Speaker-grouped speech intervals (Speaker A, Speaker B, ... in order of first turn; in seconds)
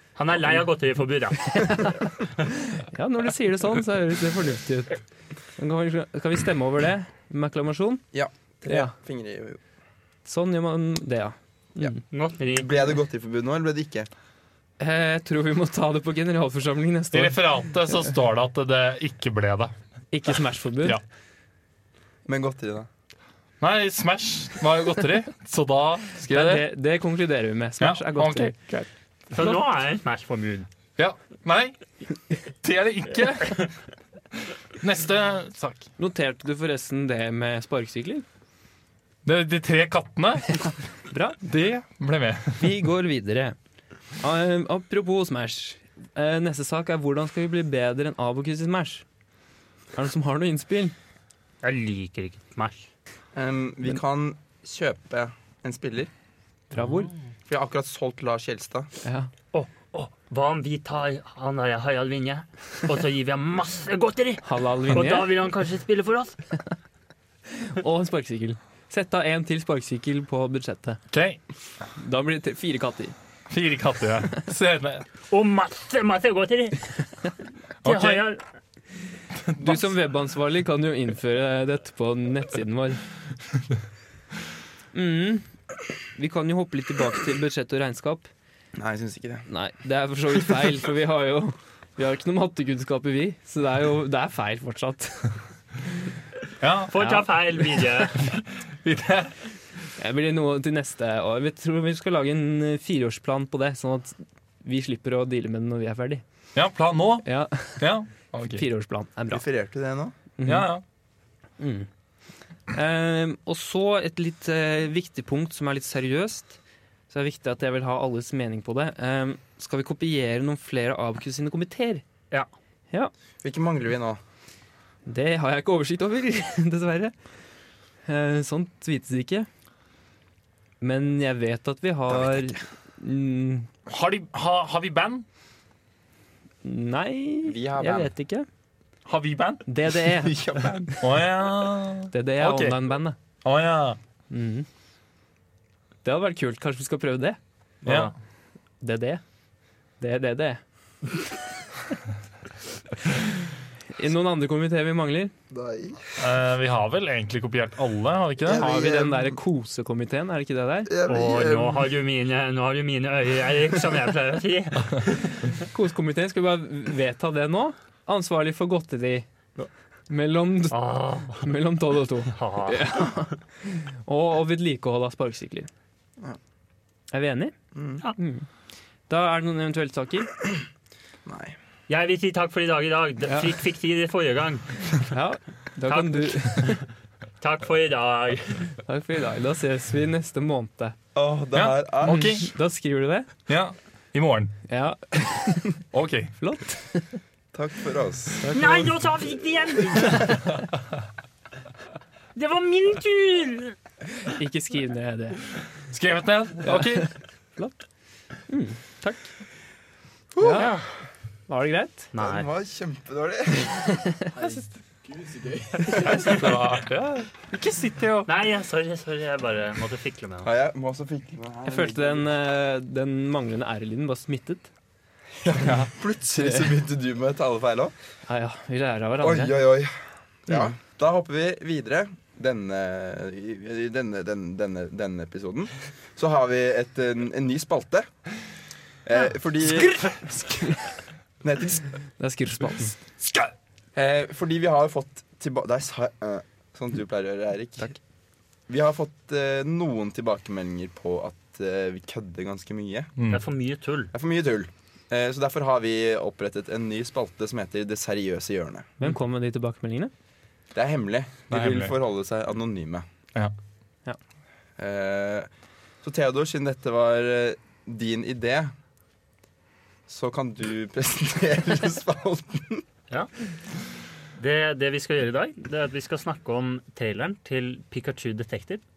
Speaker A: 0.2-1.9, 12.1-12.7, 29.3-30.7, 51.6-52.9, 59.5-66.4, 75.3-77.0, 77.8-78.4, 96.9-98.2, 147.8-148.1, 161.1-165.4, 170.7-171.5, 172.3-173.1, 181.9-184.9, 185.9-186.9, 187.4-188.7, 198.5-200.5, 202.4-203.8, 210.6-210.8, 212.1-212.5, 218.3-220.5, 253.3-254.1, 274.4-278.8
Speaker B: 1.5-5.0, 5.6-8.0, 8.7-8.9, 10.3-12.0, 14.8-17.5, 20.1-21.0, 26.2-28.9, 36.0-38.2, 41.1-41.4, 42.6-43.6, 44.2-49.0, 50.0-51.0, 56.7-57.1, 59.0-59.3, 64.4-65.3, 67.5-71.0, 72.0-73.2, 79.6-83.0, 84.9-85.5, 86.1-88.3, 89.5-95.4, 97.0-97.3, 100.0-106.2, 107.2-107.9, 108.4-109.5, 110.4-110.7, 111.6-111.9, 112.7-116.6, 117.1-122.0, 125.1-127.1, 128.1-129.5, 130.8-133.7, 136.6-138.5, 139.7-140.9, 142.1-143.2, 144.3-144.7, 146.0-147.4, 148.8-149.2, 150.0-150.6, 153.9-155.3, 158.5-160.9, 165.7-169.3, 170.1-175.7, 177.1-177.5, 178.2-178.5, 179.1-180.3, 185.1-186.8, 188.8-191.0, 192.0-193.3, 194.7-195.8, 196.4-197.2, 198.4-198.9, 204.2-205.4, 206.7-207.8, 208.5-209.3, 210.4-210.8, 211.5-212.1, 214.0-214.3, 221.7-224.7, 225.6-226.7, 228.3-229.6, 239.6-240.8, 242.2-243.0, 259.0-260.1
Speaker C: 8.1-9.6, 12.5-14.1, 22.3-22.9, 53.4-56.1, 57.5-58.9, 88.8-89.5, 109.3-110.2, 123.4-124.2, 137.5-138.1, 140.2-141.0, 155.5-156.0, 158.4-159.4, 160.9-161.9, 177.8-178.0, 181.3-181.6, 191.2-192.3, 197.5-198.5, 210.3-210.7, 212.2-216.3, 220.4-222.3, 225.4-227.9, 229.2-229.9, 230.5-238.1, 239.1-240.0, 241.4-241.8, 243.9-248.0, 248.7-253.1, 254.1-259.0, 260.7-263.1, 264.8-265.5, 266.0-268.7, 270.1-272.9
Speaker D: 17.1-19.7, 23.6-26.7, 27.8-28.8, 31.0-31.8, 32.4-33.7, 34.8-35.9, 39.2-40.7, 41.4-42.7, 71.1-71.4, 73.5-75.0, 77.8-78.2, 79.4-79.9, 96.6-97.2, 98.2-99.3, 106.5-108.7, 110.4-110.8, 133.9-135.2, 139.1-139.6, 141.0-142.9, 143.4-144.0, 147.8-148.1, 156.2-158.7, 191.5-192.5, 193.5-194.6, 195.9-196.3, 205.9-207.1, 216.0-218.3, 253.2-253.4, 261.5-261.9